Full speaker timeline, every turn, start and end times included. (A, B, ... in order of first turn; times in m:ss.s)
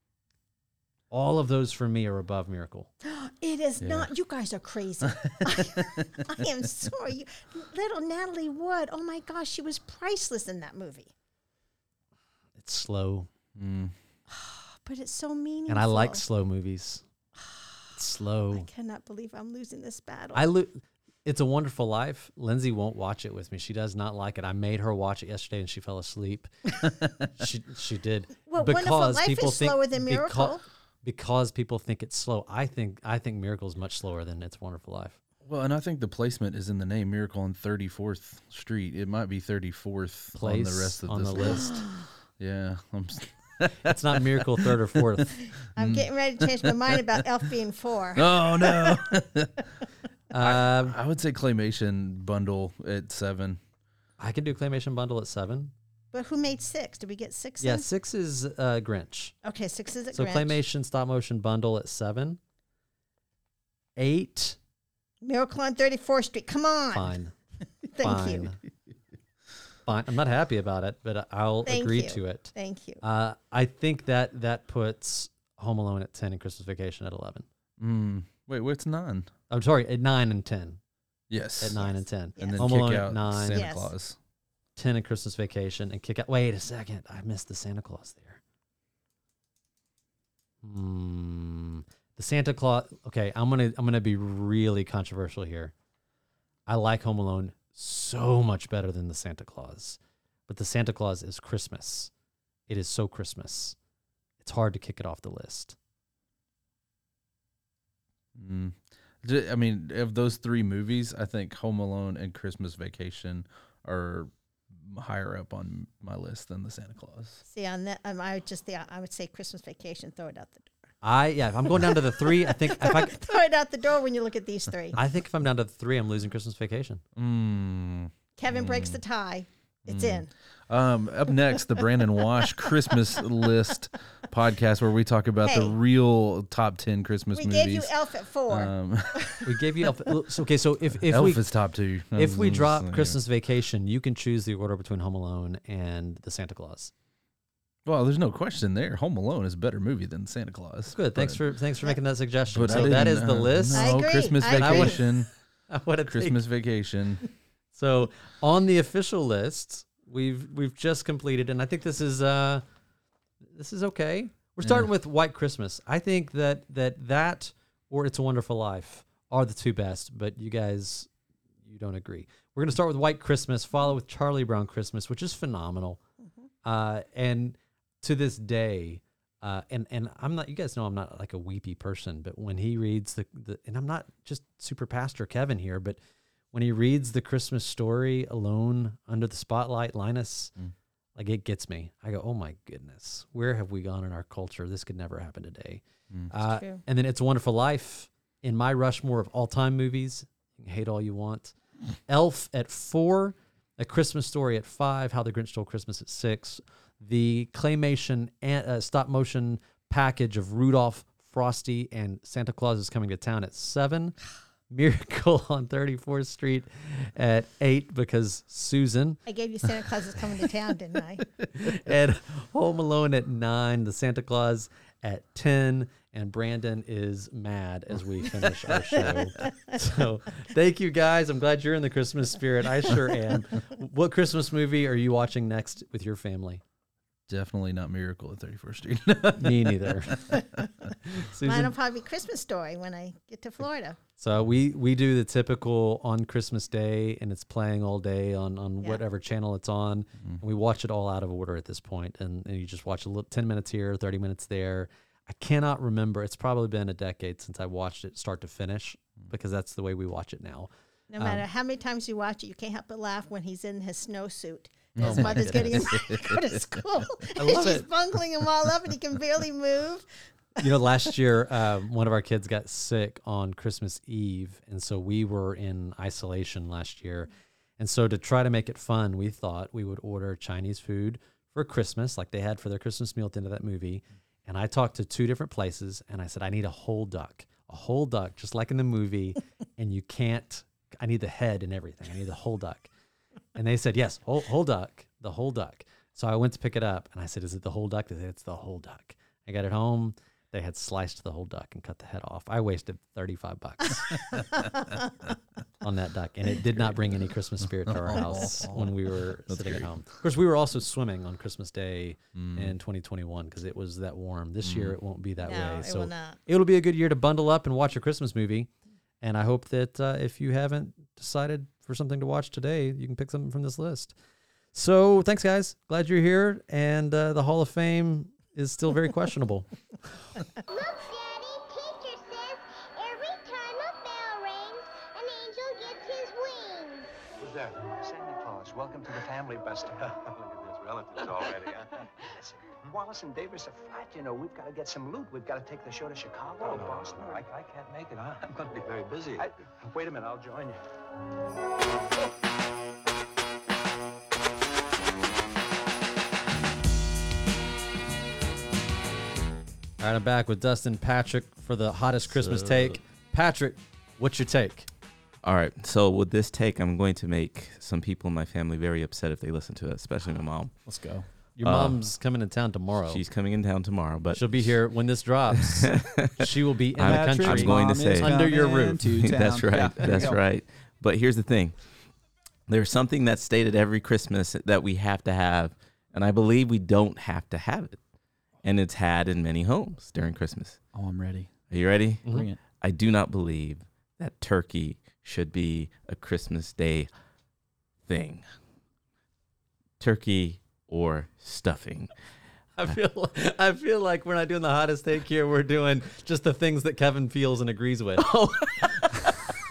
0:01.1-0:02.9 A
0:03.0-0:11.1 B
0:03.8-0:04.1 C
0:05.1-0:06.0 C
0:12.6-0:13.3 A
0:13.6-0:13.9 C
0:14.3-0:16.2 B
0:15.7-0:17.0 A
0:17.9-0:18.7 A
0:18.5-0:20.5 B
0:20.3-0:26.5 A
0:27.4-0:35.2 A
0:28.5-0:30.6 B
0:35.4-0:41.8 C
0:40.4-0:41.8 A
0:41.4-0:41.8 B
0:42.4-0:44.8 C
0:43.8-0:45.3 A
0:45.8-0:49.0 B
0:45.8-0:47.0 C
0:48.2-0:49.6 C
0:50.3-0:51.0 A
0:50.4-0:53.6 C
0:54.2-0:55.7 A
0:56.1-0:57.9 B
0:57.6-0:59.3 A
0:59.4-1:00.6 B
1:00.1-1:02.4 A
1:04.0-1:04.6 A
1:05.2-1:07.1 B
1:06.9-1:07.3 A
1:07.9-1:08.5 B
1:08.0-1:08.6 A
1:09.8-1:17.4 A
1:11.6-1:13.0 B
1:17.8-1:19.3 C
1:19.5-1:20.8 A
1:21.3-1:21.8 C
1:21.6-1:23.6 A
1:22.4-1:22.6 B
1:22.4-1:24.2 C
1:23.5-1:23.9 B
1:24.8-1:28.4 A
1:30.6-1:35.7 A
1:36.7-1:42.1 A
1:42.7-1:43.8 A
1:44.4-1:45.8 A
1:48.3-1:57.4 C
1:57.5-2:00.7 B
2:01.0-2:03.2 A
2:02.3-2:05.0 B
2:04.9-2:07.0 A
2:07.2-2:09.0 C
2:08.4-2:10.3 B
2:09.9-2:17.9 C
2:15.4-2:15.7 B
2:17.3-2:18.7 B
2:18.5-2:19.3 C
2:19.4-2:21.4 A
2:21.0-2:23.2 C
2:22.1-2:26.9 A
2:27.8-2:31.4 C
2:30.9-2:35.2 A
2:32.5-2:35.3 C
2:32.7-2:33.1 B
2:33.7-2:35.0 B
2:35.7-2:36.4 A
2:36.1-2:37.2 C
2:37.7-2:42.6 A
2:43.5-2:51.1 A
2:51.6-2:56.0 A
2:56.6-3:06.0 A
3:06.5-3:10.5 A
3:11.2-3:21.5 A
3:16.4-3:16.8 B
3:22.1-3:34.2 A
3:34.7-3:39.2 A
3:39.2-3:41.2 B
3:41.5-3:56.6 A
3:49.0-3:49.8 B
3:57.3-4:00.1 C
3:59.4-4:00.2 A
4:01.1-4:01.7 A
4:01.4-4:04.0 B
4:04.2-4:21.4 A
4:21.1-4:30.0 B
4:25.0-4:26.0 A
4:25.0-4:26.8 C
4:27.4-4:27.9 A
4:30.6-4:52.9 A
4:53.6-5:04.2 A
5:05.8-5:18.7 A
5:07.6-5:09.0 C
5:09.5-5:09.9 C
5:12.3-5:12.7 C
5:14.6-5:15.0 C
5:15.4-5:16.4 B
5:19.2-5:24.1 A
5:24.7-5:29.7 A
5:30.7-5:37.1 D
5:37.4-5:50.8 E
6:00.0-6:04.9 A
6:02.3-6:02.8 F
6:05.4-6:10.8 F
6:10.8-6:11.2 G
6:11.6-6:13.2 A
6:11.6-6:12.0 F
6:13.1-6:14.7 F
6:14.3-6:19.0 A
6:15.5-6:16.4 F
6:17.0-6:18.3 F
6:17.0-6:20.4 G
6:19.0-6:21.8 F
6:22.7-6:28.0 F
6:28.6-6:30.8 F
6:30.9-6:31.5 G
6:31.7-6:32.3 F
6:32.3-6:32.6 G
6:32.8-6:37.1 F
6:38.1-6:38.4 F
6:40.0-6:42.1 F
6:42.8-6:49.1 A